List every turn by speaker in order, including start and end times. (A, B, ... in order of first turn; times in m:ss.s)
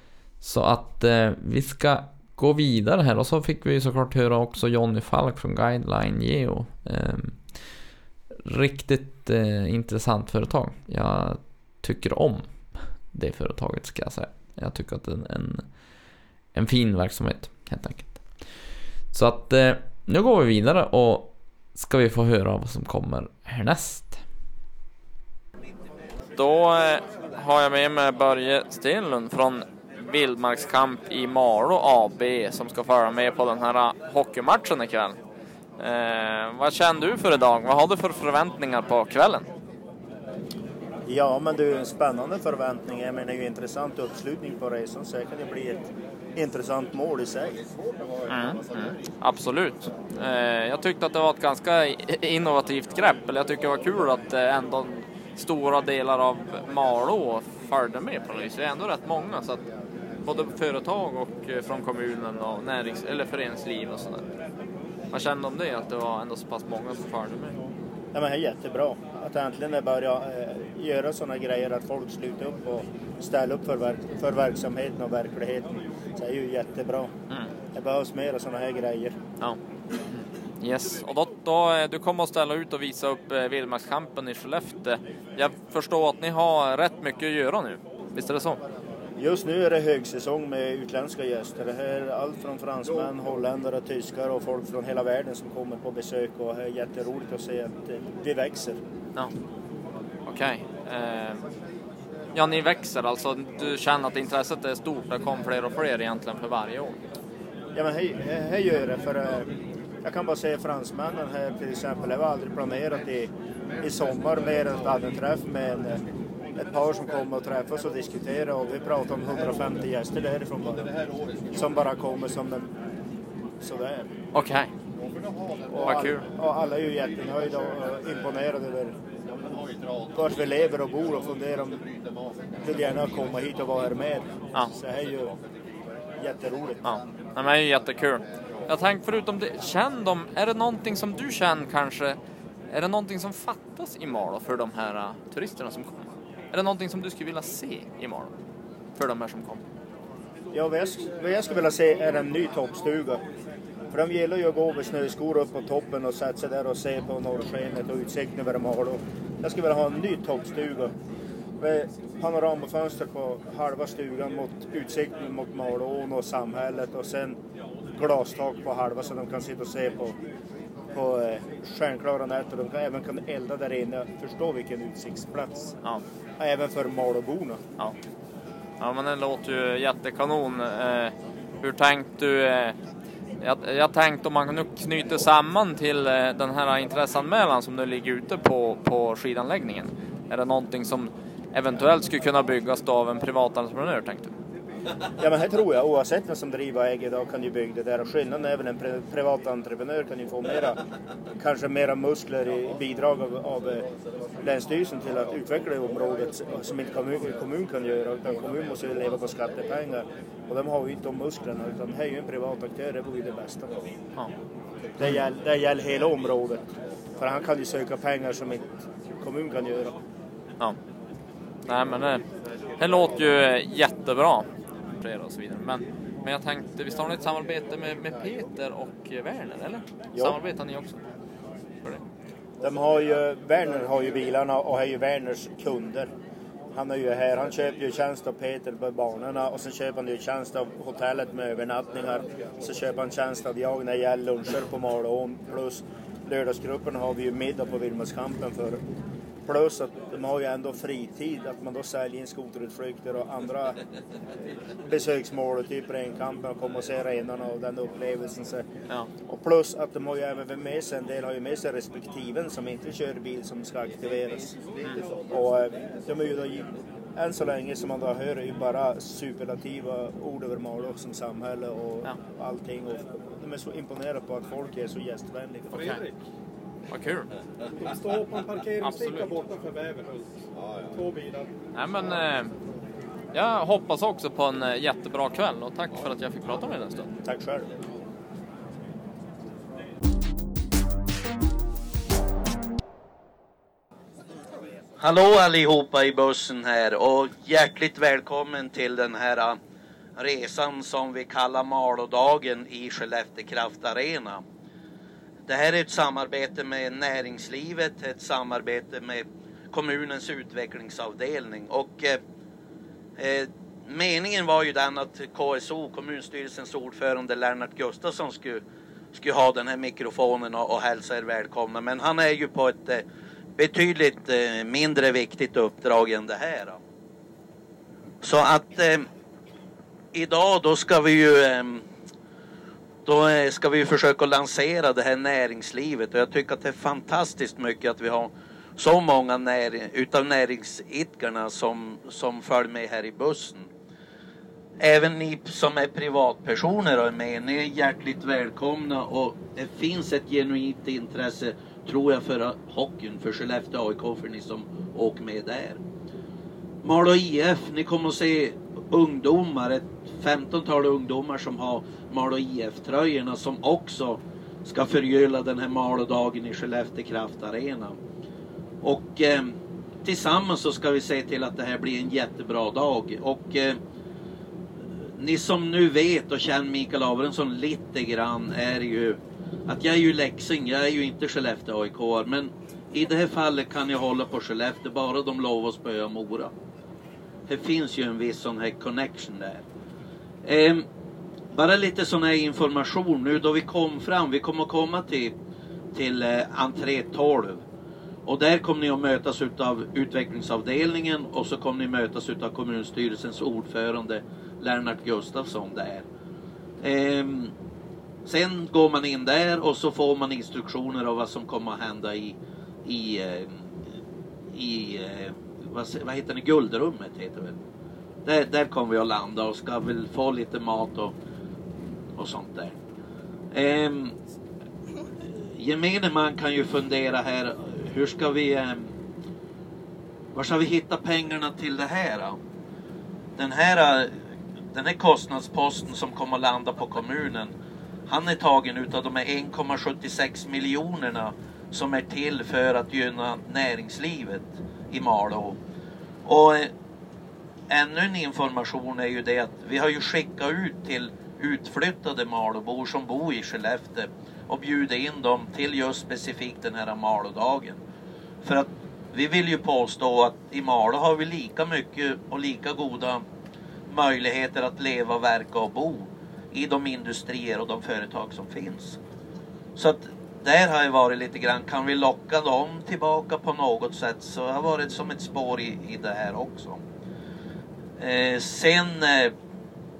0:00.4-0:07.8 A
0:08.4-0:18.5 A
0:19.1-0:24.2 A
0:26.4-0:35.2 B
0:35.8-0:39.5 B
0:41.0-0:47.6 C
0:48.3-0:59.6 B
1:00.2-1:04.2 B
1:05.1-1:07.6 B
1:08.1-1:17.1 C
1:17.7-1:19.2 C
1:20.1-1:28.6 B
1:29.2-1:38.8 C
1:40.2-1:41.4 B
1:42.3-1:47.0 B
1:47.7-1:49.5 C
1:50.0-1:56.0 C
1:56.6-2:00.9 C
2:01.5-2:02.7 C
2:03.6-2:04.1 C
2:04.3-2:04.7 B
2:05.7-2:08.9 C
2:05.8-2:06.2 B
2:10.1-2:11.8 C
2:12.6-2:15.3 C
2:16.2-2:16.8 C
2:16.8-2:22.2 B
2:22.7-2:28.3 B
2:28.9-2:29.6 B
2:30.5-2:33.2 C
2:33.9-2:40.9 C
2:41.6-2:47.4 C
2:48.0-2:50.2 C
2:50.9-2:55.7 C
2:56.4-2:57.6 C
2:58.8-3:02.8 B
3:03.4-3:14.3 B
3:15.2-3:20.8 C
3:21.4-3:23.9 C
3:24.4-3:33.7 C
3:35.0-3:36.6 C
3:37.2-3:38.7 C
3:39.2-3:40.0 C
3:41.6-3:42.2 B
3:42.8-3:51.0 B
3:50.1-3:50.4 C
3:52.6-3:56.1 C
3:56.7-4:08.8 C
4:09.4-4:13.8 C
4:14.8-4:18.6 C
4:19.3-4:24.5 C
4:25.3-4:35.9 C
4:35.7-4:36.2 D
4:35.7-4:36.0 B
4:36.9-4:37.3 B
4:37.8-4:40.4 D
4:38.8-4:39.3 B
4:40.9-4:41.5 D
4:41.7-4:42.5 B
4:43.3-4:47.1 B
4:47.2-4:47.7 C
4:55.0-4:59.6 E
5:00.2-5:04.4 E
5:05.5-5:12.2 E
5:13.2-5:18.6 E
5:19.1-5:23.0 E
5:23.6-5:26.8 E
5:28.2-5:29.1 E
5:30.1-5:31.8 E
5:33.0-5:43.7 E
5:44.8-5:55.8 E
5:56.8-6:08.0 E
6:08.8-6:13.8 E
6:15.2-6:26.5 E
6:27.5-6:29.6 E
6:30.4-6:30.8 E
6:31.5-6:35.3 E
6:35.9-6:37.6 E
6:38.2-6:46.0 E
6:46.8-6:47.5 E
6:48.2-6:53.7 E
6:54.5-6:57.6 E
6:58.2-7:01.1 E
7:02.2-7:02.8 E
7:03.5-7:04.2 E
7:05.2-7:08.9 E
7:10.3-7:12.4 E
7:13.4-7:17.5 E
7:18.1-7:25.6 E
7:26.2-7:26.7 E
7:27.7-7:37.8 E
7:38.4-7:43.2 E
7:43.9-7:49.0 E
7:49.8-7:56.8 E
7:58.0-7:59.3 E